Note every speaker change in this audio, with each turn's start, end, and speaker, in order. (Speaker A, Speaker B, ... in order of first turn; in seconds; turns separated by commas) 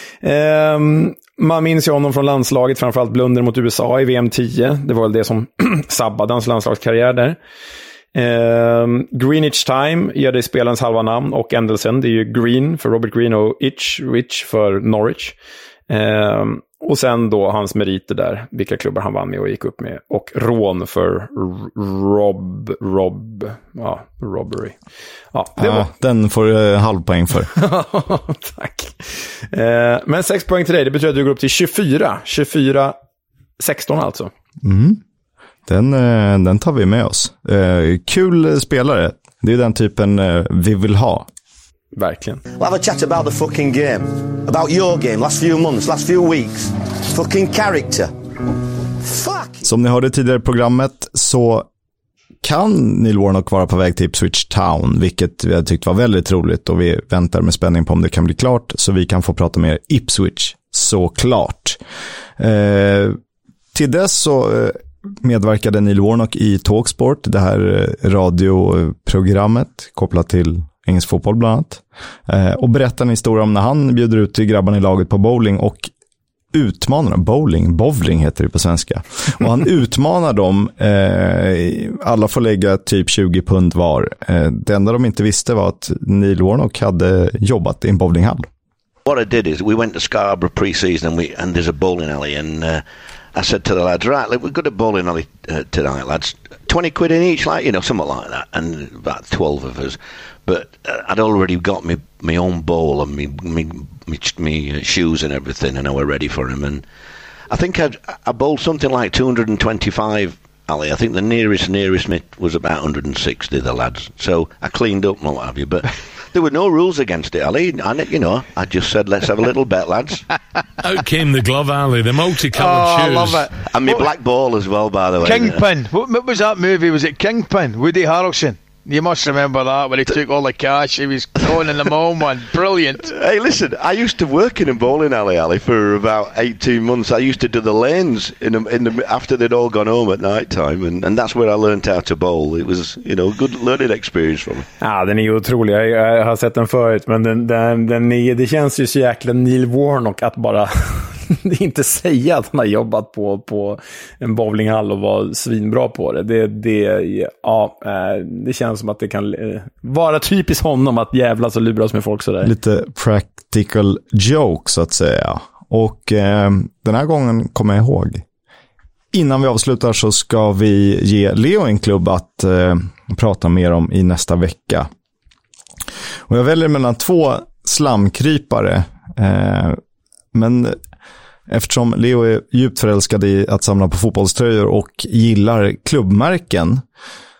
Speaker A: 0.2-7.4, Speaker A: 8.1-15.3, Speaker A: 15.9-24.8, Speaker A: 25.3-25.9, Speaker B: 25.6-27.5, Speaker A: 27.5-33.0, Speaker A: 33.6-34.3, Speaker B: 34.6-35.0, Speaker B: 35.7-41.3, Speaker A: 42.0-42.4, Speaker C: 42.6-48.1, Speaker C: 49.0-49.6, Speaker B: 49.6-51.7, Speaker B: 52.4-61.8, Speaker B: 62.4-63.2, Speaker B: 63.7-75.9, Speaker B: 76.5-88.5, Speaker D: 89.0-92.8, Speaker D: 93.3-106.8, Speaker D: 107.5-120.2, Speaker E: 120.8-123.5, Speaker F: 122.7-124.1, Speaker D: 123.6-125.7, Speaker F: 125.2-133.1, Speaker D: 133.1-144.6, Speaker A: 144.8-162.5, Speaker B: 162.4-168.2, Speaker B: 169.1-174.9, Speaker B: 176.3-179.8, Speaker B: 180.3-180.8, Speaker B: 181.5-186.8